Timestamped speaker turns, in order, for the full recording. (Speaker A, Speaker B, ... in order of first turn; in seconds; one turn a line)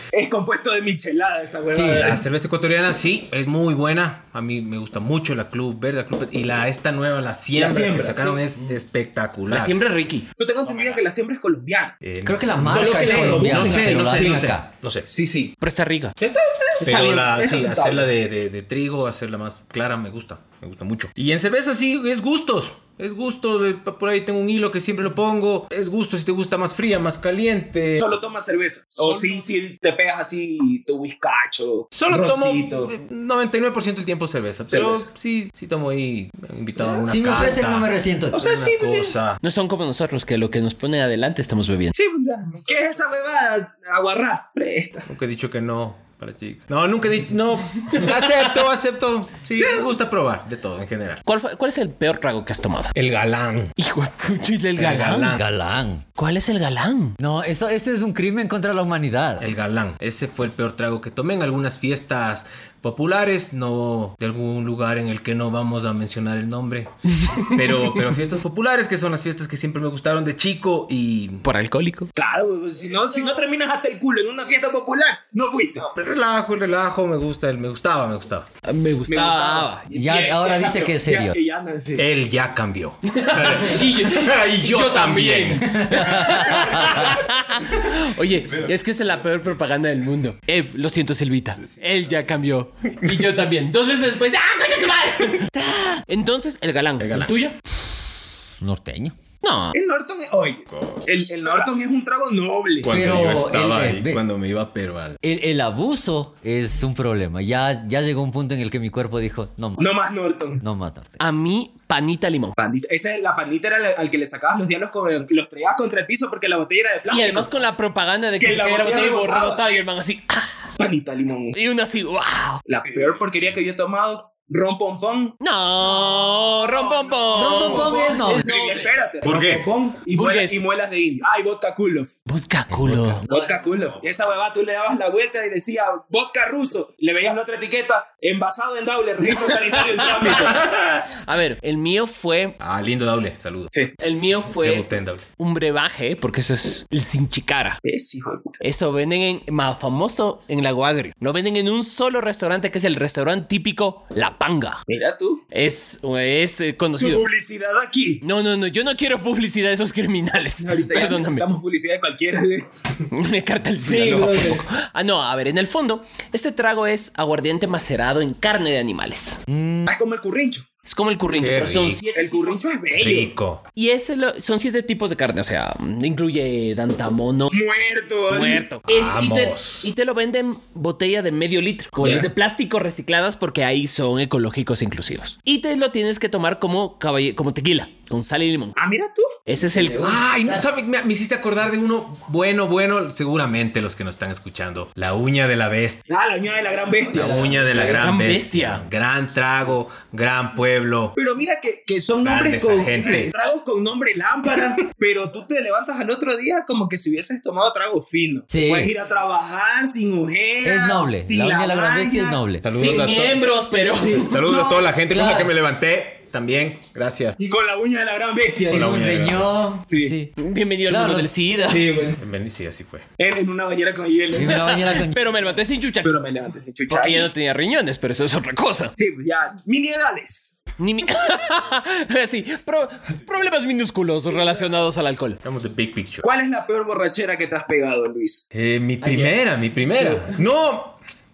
Speaker A: 0.1-2.2
Speaker B: 1.7-2.1
Speaker C: 1.9-9.8
Speaker A: 7.6-8.4
Speaker D: 9.5-10.9
Speaker A: 10.4-11.9
Speaker C: 12.0-15.1
Speaker B: 12.2-14.7
Speaker A: 12.6-14.4
Speaker A: 15.1-15.5
Speaker D: 15.6-16.2
Speaker A: 16.2-18.1
Speaker D: 16.8-17.3
Speaker C: 16.8-28.1
Speaker A: 28.0-32.9
Speaker C: 31.9-39.4
Speaker A: 34.7-35.0
Speaker A: 36.8-37.0
Speaker B: 37.1-38.5
Speaker A: 38.3-39.2
Speaker D: 39.4-41.9
Speaker A: 41.9-45.1
Speaker C: 45.1-51.2
Speaker A: 49.6-49.9
Speaker D: 51.3-52.9
Speaker C: 53.0-53.8
Speaker D: 53.8-55.3
Speaker C: 54.8-55.5
Speaker B: 55.3-56.0
Speaker D: 56.2-57.2
Speaker B: 57.2-59.5
Speaker C: 59.4-71.5
Speaker D: 67.2-67.5
Speaker D: 71.4-72.1
Speaker A: 72.2-75.9
Speaker C: 75.9-78.5
Speaker D: 78.6-79.9
Speaker A: 79.1-82.1
Speaker B: 79.9-81.4
Speaker C: 82.0-86.5
Speaker D: 83.1-97.5
Speaker B: 85.9-87.1
Speaker C: 97.0-97.4
Speaker B: 98.6-99.2
Speaker D: 99.4-99.8
Speaker A: 99.7-102.9
Speaker C: 100.7-101.7
Speaker C: 102.8-105.2
Speaker B: 102.9-104.2
Speaker B: 105.2-109.9
Speaker A: 109.8-110.6
Speaker B: 110.6-111.2
Speaker D: 111.2-112.6
Speaker A: 112.6-117.5
Speaker D: 117.1-120.6
Speaker A: 118.4-119.7
Speaker A: 120.8-121.6
Speaker D: 121.5-122.8
Speaker A: 122.7-125.4
Speaker D: 125.4-128.9
Speaker A: 126.6-132.2
Speaker B: 127.3-128.5
Speaker C: 129.2-129.7
Speaker D: 130.1-130.6
Speaker D: 132.3-133.3
Speaker B: 132.8-133.3
Speaker A: 133.3-140.7
Speaker D: 139.4-142.6
Speaker C: 142.6-143.7
Speaker D: 144.0-144.9
Speaker C: 144.5-145.2
Speaker D: 145.4-147.8
Speaker A: 147.8-148.6
Speaker D: 148.6-154.8
Speaker A: 154.9-155.4
Speaker D: 155.5-157.3
Speaker A: 156.9-158.2
Speaker D: 158.2-161.5
Speaker A: 160.6-162.7
Speaker D: 163.1-169.4
Speaker A: 163.8-164.6
Speaker B: 169.5-170.0
Speaker A: 169.9-170.7
Speaker D: 170.9-172.6
Speaker C: 171.4-172.0
Speaker A: 172.1-173.3
Speaker C: 173.0-173.6
Speaker D: 173.8-177.6
Speaker A: 177.5-178.7
Speaker D: 178.3-188.8
Speaker C: 178.9-179.9
Speaker A: 182.0-182.3
Speaker A: 188.8-189.3
Speaker D: 189.5-190.2
Speaker C: 190.0-196.1
Speaker A: 196.1-197.9
Speaker C: 197.1-201.2
Speaker D: 197.8-198.8
Speaker A: 201.2-212.4
Speaker C: 202.2-203.3
Speaker B: 208.5-208.9
Speaker B: 210.6-212.7
Speaker C: 212.6-213.5
Speaker D: 212.7-214.5
Speaker C: 214.0-217.4
Speaker B: 215.1-215.5
Speaker A: 217.4-219.0
Speaker B: 218.7-220.3
Speaker C: 218.7-219.6
Speaker A: 219.9-220.1
Speaker D: 220.4-221.9
Speaker B: 220.9-221.3
Speaker A: 221.6-222.2
Speaker C: 222.2-223.1
Speaker A: 223.2-224.8
Speaker B: 224.3-225.2
Speaker D: 224.4-226.2
Speaker A: 226.0-227.3
Speaker D: 226.9-228.9
Speaker A: 229.0-230.6
Speaker D: 230.8-235.4
Speaker C: 235.4-236.3
Speaker A: 236.2-238.5
Speaker C: 238.5-241.0
Speaker A: 239.0-239.3